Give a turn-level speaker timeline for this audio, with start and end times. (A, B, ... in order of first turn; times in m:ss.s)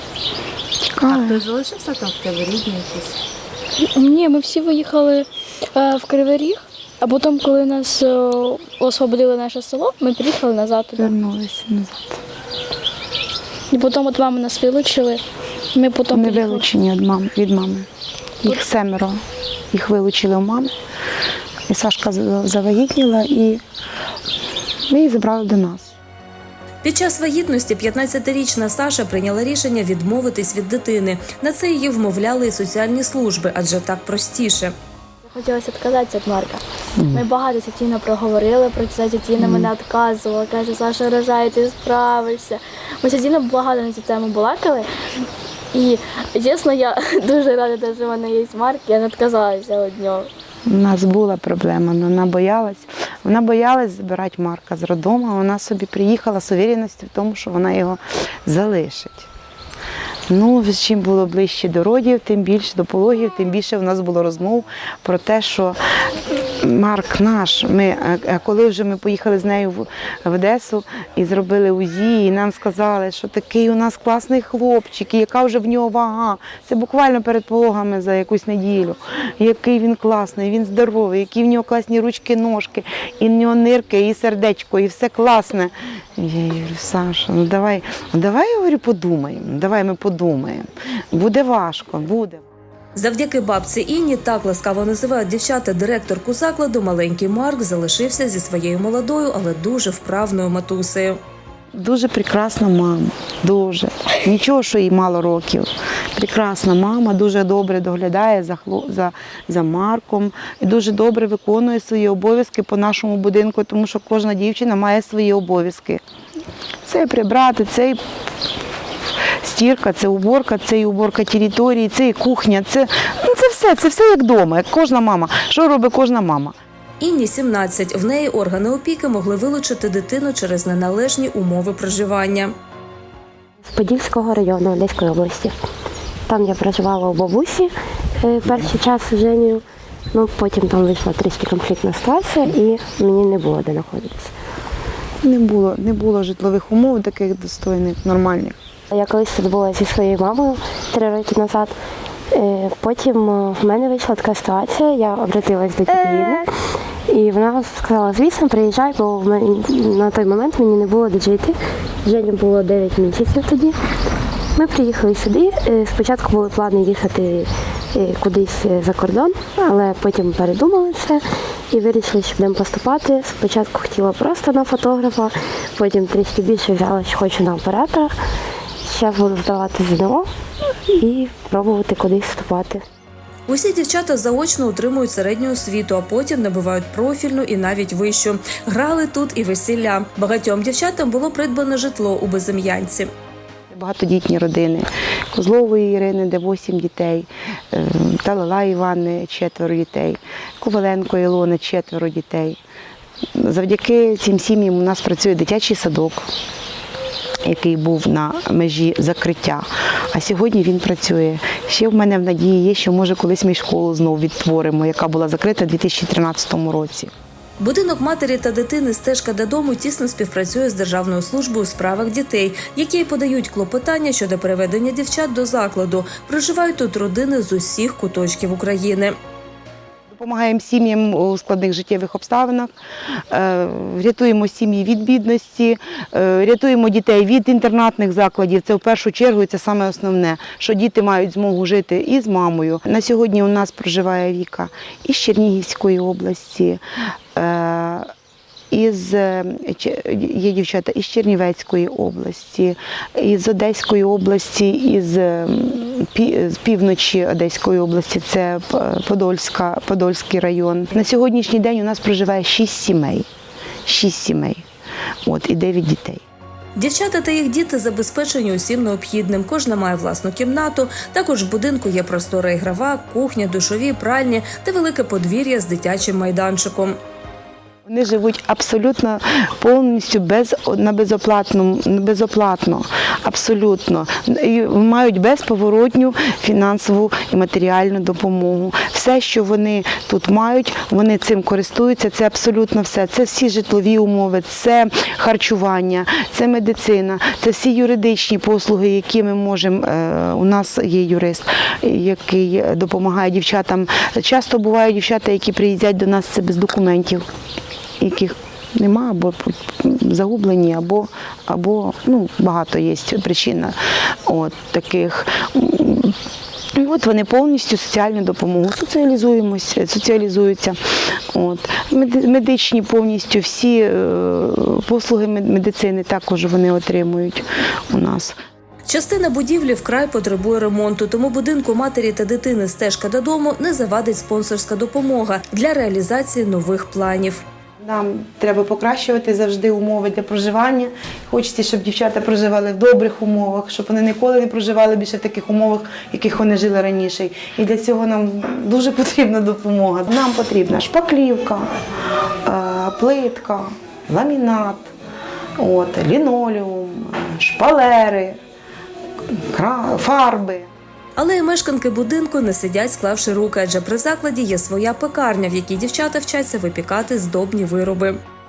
0:00.8-0:01.4 A
0:01.1-0:03.2 B
0:03.8-0:11.1 C
0:11.0-0:12.2 A
0:13.7-0:15.2 C
0:15.7-0:16.6 C
0:16.1-0:17.9 A
0:18.4-0:19.2 A
0:19.7-0:20.7 A
0:21.7-0:23.6 A
0:24.9-0:25.9 A
0:26.8-0:34.7 D
0:35.3-0:44.9 C
0:37.0-0:37.2 A
0:39.4-0:39.7 A
0:45.7-0:50.3 C
0:50.6-0:59.3 A
1:00.3-1:05.8 A
1:06.6-1:32.4 A
1:32.9-1:41.2 D
1:41.8-1:56.0 A
1:56.8-1:58.0 A
1:59.4-2:06.5 A
2:07.0-2:12.5 D
2:13.6-2:15.6 E
2:16.3-2:24.3 E
2:25.2-2:28.5 A
2:28.9-2:31.7 E
2:32.3-2:36.5 E
2:37.1-2:43.8 E
2:44.5-2:58.2 E
2:58.8-3:00.3 E
3:00.9-3:02.8 E
3:03.5-3:13.1 D
3:13.7-3:22.6 A
3:23.4-3:26.2 A
3:27.4-3:37.1 A
3:37.6-3:49.2 D
3:50.1-3:52.7 A
3:53.3-4:06.8 A
4:07.3-4:08.1 A
4:08.7-4:23.2 A
4:23.8-4:24.6 A
4:25.2-4:26.2 A
4:26.8-4:37.0 D
4:37.8-5:07.2 A
5:08.0-5:13.8 A
5:14.3-5:16.1 A
5:16.8-5:20.8 A
5:21.3-5:28.4 A
5:28.9-5:37.4 D
5:37.8-5:51.7 A
5:52.4-5:54.9 A
5:55.6-5:58.4 A
5:59.3-6:00.7 A
6:01.2-6:08.2 D